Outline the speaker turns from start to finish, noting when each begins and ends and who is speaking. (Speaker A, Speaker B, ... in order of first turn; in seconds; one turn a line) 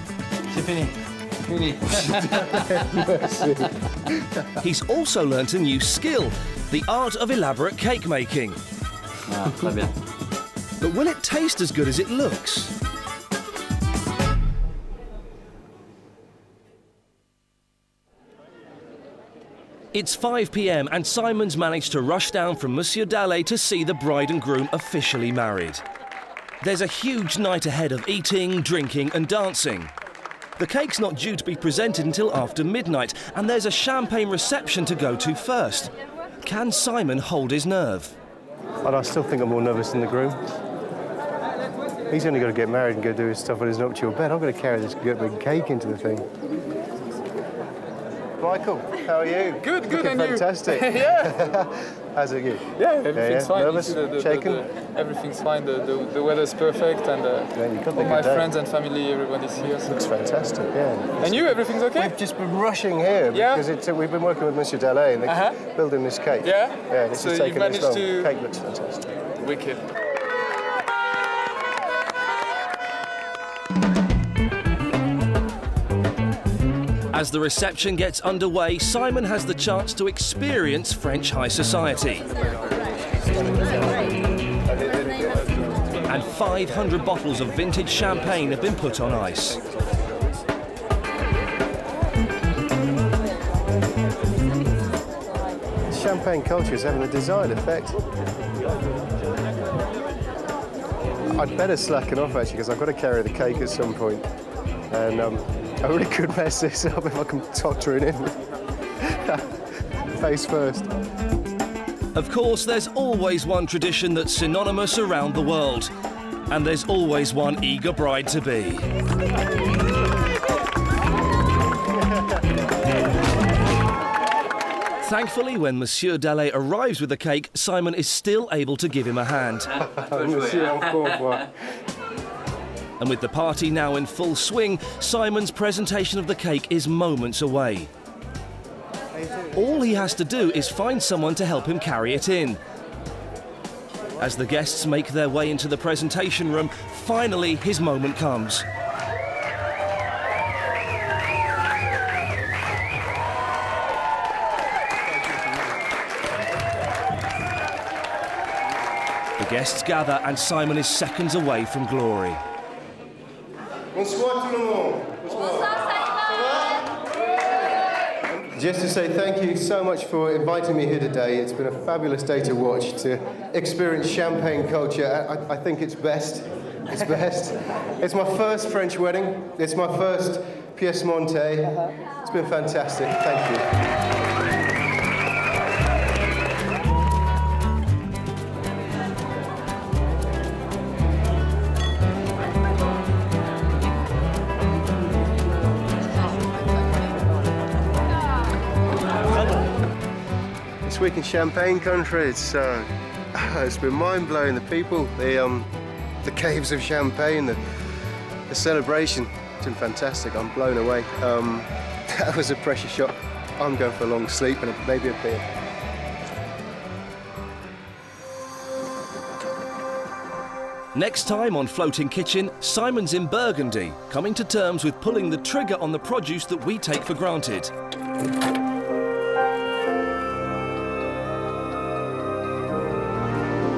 Speaker A: 0.5-3.3
Speaker B: 2.7-4.4
Speaker C: 4.6-8.6
Speaker A: 9.2-9.9
Speaker C: 10.8-12.7
Speaker C: 19.9-25.8
Speaker C: 26.6-29.9
Speaker C: 30.6-38.1
Speaker B: 38.8-40.4
Speaker B: 42.1-46.3
Speaker B: 48.4-54.6
Speaker D: 49.6-51.4
Speaker D: 52.8-59.9
Speaker B: 57.5-58.5
Speaker B: 59.8-69.1
Speaker D: 61.2-62.1
Speaker D: 63.3-63.6
Speaker D: 65.3-65.6
Speaker D: 66.4-68.3
Speaker D: 69.4-69.8
Speaker C: 77.1-82.3
Speaker B: 83.5-84.1
Speaker B: 84.6-85.7
Speaker C: 86.1-89.6
Speaker B: 95.9-98.0
Speaker B: 101.3-104.2
Speaker B: 104.9-108.4
Speaker B: 109.0-109.5
Speaker B: 110.1-110.9
Speaker C: 112.1-115.9
Speaker C: 116.5-118.9
Speaker C: 125.0-129.8
Speaker A: 129.8-131.5
Speaker B: 129.9-131.5
Speaker C: 133.0-137.9
Speaker C: 139.5-142.6
Speaker C: 144.2-148.7
Speaker C: 159.4-162.4
Speaker B: 163.9-167.0
Speaker B: 168.3-183.7
Speaker B: 200.8-205.7
Speaker B: 206.2-207.6
Speaker B: 208.5-215.5
Speaker C: 220.9-227.7